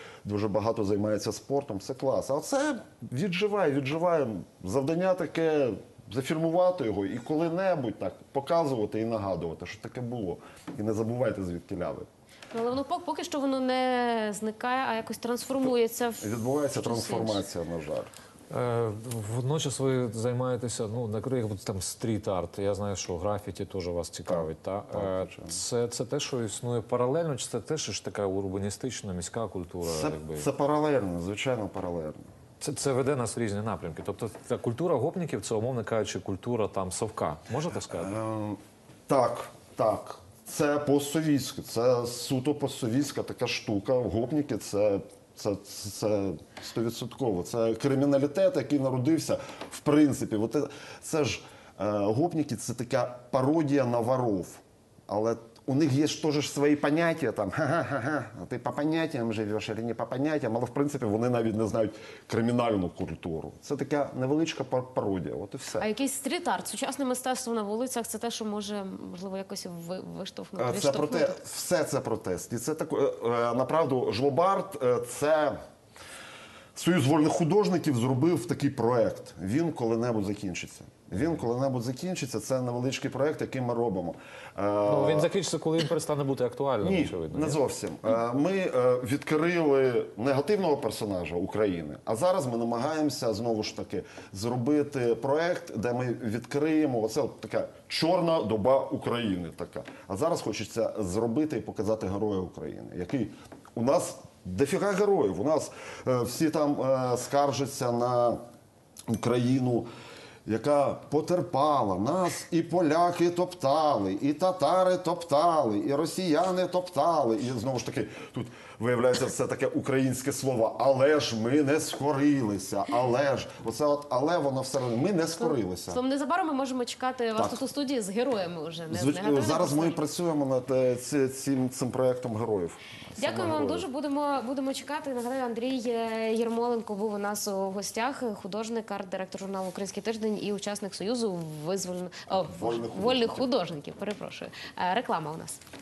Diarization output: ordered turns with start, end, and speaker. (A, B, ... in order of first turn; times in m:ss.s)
0:00.2-0:12.1 A
0:12.5-0:17.4 B
0:16.2-0:18.1 A
0:18.5-0:30.5 C
0:24.3-0:25.6 A
0:29.8-0:32.3 A
0:32.6-0:38.1 C
0:37.9-1:05.9 A
1:05.8-1:11.4 B
1:10.6-1:15.6 A
1:16.8-1:25.3 A
1:24.9-1:27.6 C
1:26.8-1:48.4 A
1:49.1-1:49.9 A
1:50.4-2:06.0 A
2:05.4-2:10.0 B
2:07.4-2:07.6 A
2:08.9-2:13.9 A
2:13.2-2:25.6 B
2:22.4-2:23.5 A